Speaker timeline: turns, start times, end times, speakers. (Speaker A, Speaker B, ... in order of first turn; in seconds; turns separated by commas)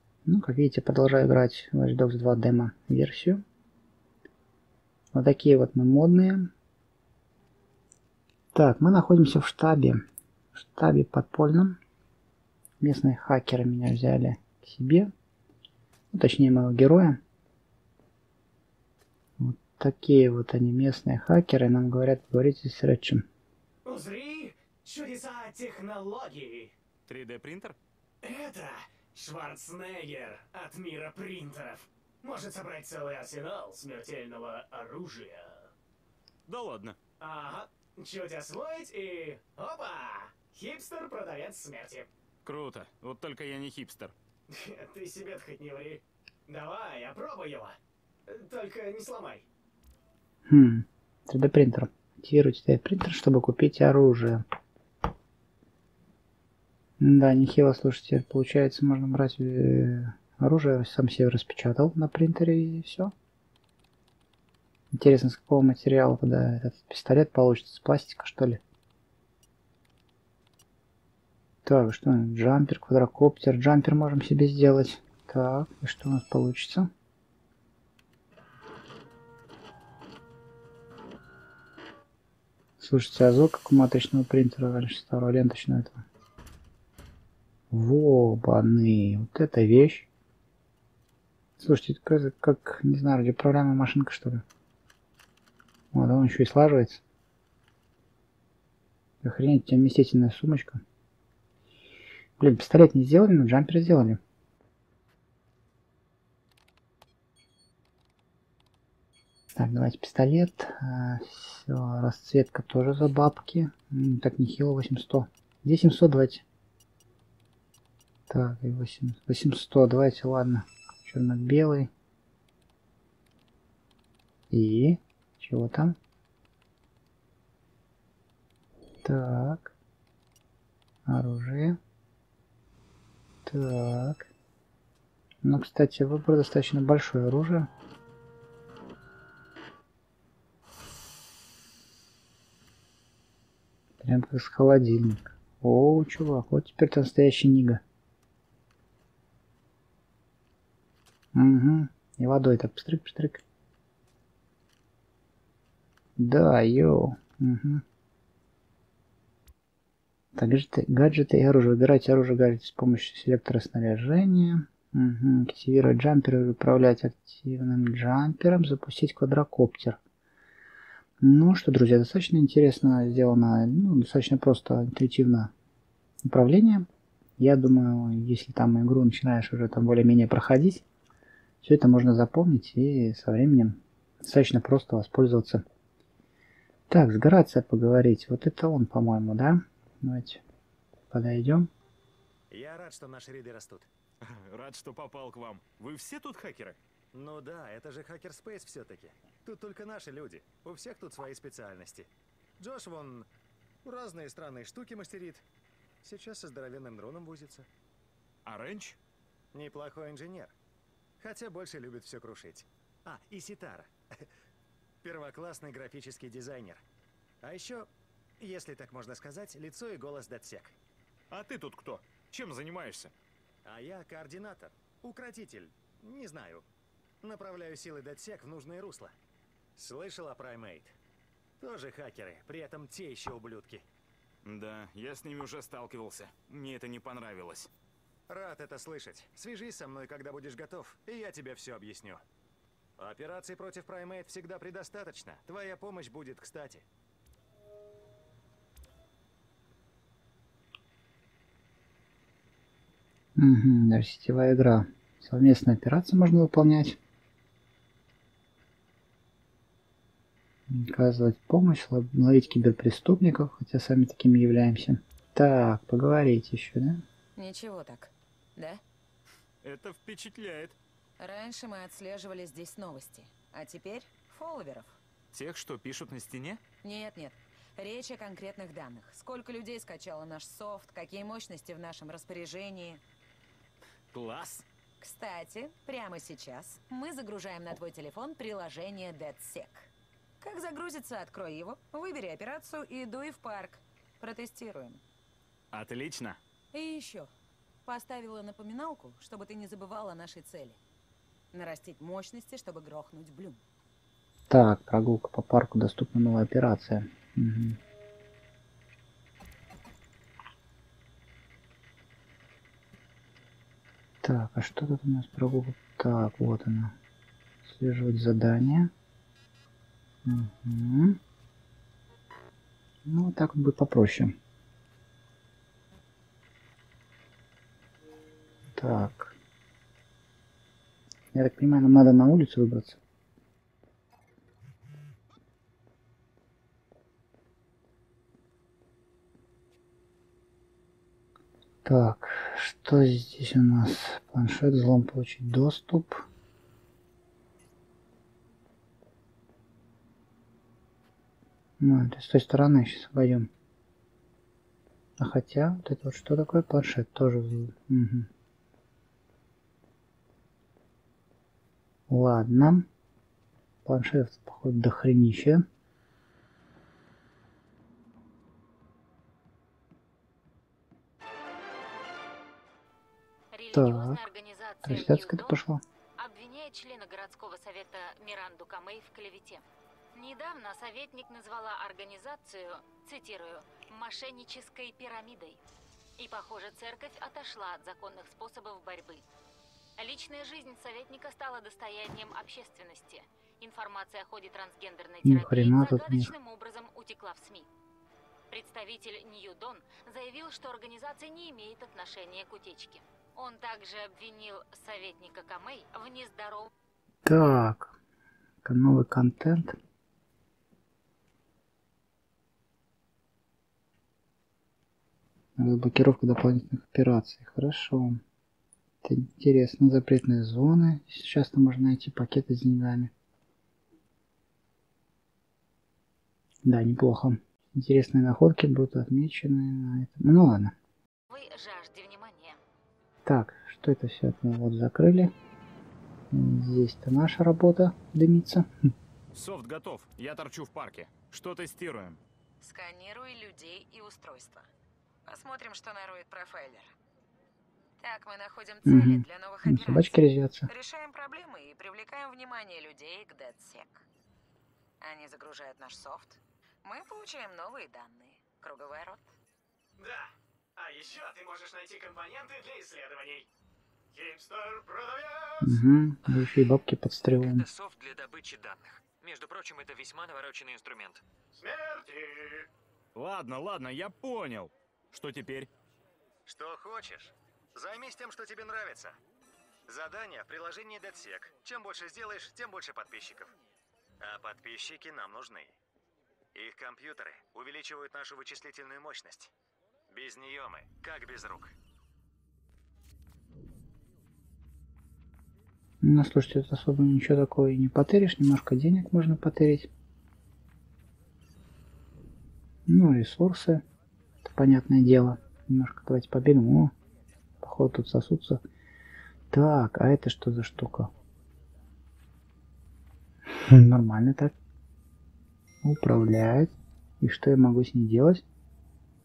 Speaker A: 0.2-3.4, Speaker A: 5.1-6.5, Speaker A: 8.5-10.0, Speaker A: 10.5-11.8, Speaker A: 12.8-15.1, Speaker A: 16.1-17.2, Speaker A: 19.4-23.3, Speaker B: 23.9-26.8, Speaker C: 27.1-27.8, Speaker B: 28.2-35.7, Speaker C: 36.5-37.0, Speaker B: 37.2-42.1, Speaker C: 42.4-44.1, Speaker B: 44.5-49.5, Speaker A: 50.5-54.4, Speaker A: 57.0-63.1, Speaker A: 64.9-68.6, Speaker A: 71.7-76.9, Speaker A: 82.8-86.0, Speaker A: 87.7-90.1, Speaker A: 91.6-94.4, Speaker A: 95.9-97.0, Speaker A: 99.2-100.8, Speaker A: 102.4-104.2, Speaker A: 109.5-116.4, Speaker A: 118.3-121.9, Speaker A: 124.5-126.0, Speaker A: 129.0-129.7, Speaker A: 131.1-131.8, Speaker A: 133.5-134.3, Speaker A: 135.4-137.7, Speaker A: 144.0-147.8, Speaker A: 151.3-153.4, Speaker A: 156.2-157.8, Speaker A: 160.3-170.0, Speaker A: 171.2-175.5, Speaker A: 176.2-176.9, Speaker A: 177.4-180.8, Speaker A: 181.6-185.6, Speaker A: 186.9-190.4, Speaker A: 191.1-191.7, Speaker D: 192.5-193.9, Speaker C: 194.2-196.8, Speaker D: 197.1-203.3, Speaker D: 203.8-205.5, Speaker D: 206.0-207.7, Speaker C: 208.4-209.0, Speaker D: 209.5-210.6, Speaker D: 211.2-214.2, Speaker D: 215.0-216.8, Speaker D: 217.4-220.8, Speaker C: 221.3-223.1, Speaker D: 223.7-226.7, Speaker D: 227.2-229.1, Speaker D: 229.8-231.0, Speaker D: 231.6-233.8, Speaker C: 234.4-237.7, Speaker D: 238.3-242.2, Speaker D: 243.0-246.8, Speaker A: 253.3-257.0, Speaker A: 260.7-267.0, Speaker E: 267.4-268.8, Speaker C: 269.6-270.8, Speaker E: 271.2-275.0, Speaker C: 275.3-276.6, Speaker E: 276.8-283.0, Speaker C: 284.1-284.6, Speaker E: 285.0-289.9, Speaker E: 290.4-295.0, Speaker C: 295.7-296.4, Speaker E: 296.7-297.3, Speaker E: 297.8-300.8, Speaker E: 301.5-303.6, Speaker A: 304.5-307.8, Speaker A: 314.2-316.9, Speaker A: 317.6-318.9, Speaker A: 320.2-321.2, Speaker A: 323.1-324.3, Speaker A: 328.8-329.3, Speaker A: 331.3-333.0, Speaker A: 341.8-346.3, Speaker A: 351.8-353.5, Speaker A: 355.2-358.3, Speaker A: 362.1-362.9, Speaker A: 363.8-365.6, Speaker F: 373.5-375.6, Speaker A: 373.7-374.2, Speaker A: 374.8-375.8, Speaker F: 376.2-379.6, Speaker F: 380.1-385.6, Speaker F: 386.2-389.2, Speaker F: 390.0-397.7, Speaker A: 395.2-396.3, Speaker F: 398.5-406.7, Speaker A: 407.2-407.9, Speaker A: 408.6-409.8, Speaker A: 415.6-418.2, Speaker A: 419.0-423.1, Speaker A: 426.6-430.7, Speaker F: 431.3-432.6, Speaker A: 433.2-435.3, Speaker A: 436.3-438.9, Speaker C: 439.3-442.2, Speaker E: 442.6-444.7, Speaker E: 445.2-446.9, Speaker E: 448.0-454.0, Speaker A: 448.9-450.7, Speaker E: 455.0-459.3, Speaker B: 460.0-463.5, Speaker B: 464.1-465.8, Speaker A: 465.6-467.7, Speaker G: 467.4-471.2, Speaker B: 471.6-472.7, Speaker C: 473.1-475.7, Speaker D: 476.4-479.2, Speaker D: 479.9-483.5, Speaker D: 484.2-485.8, Speaker D: 486.5-489.5, Speaker D: 490.1-491.7, Speaker A: 496.0-499.9, Speaker A: 502.9-503.8, Speaker A: 504.4-506.9, Speaker A: 507.6-508.6, Speaker A: 509.5-511.1, Speaker A: 513.5-514.5, Speaker A: 515.8-518.5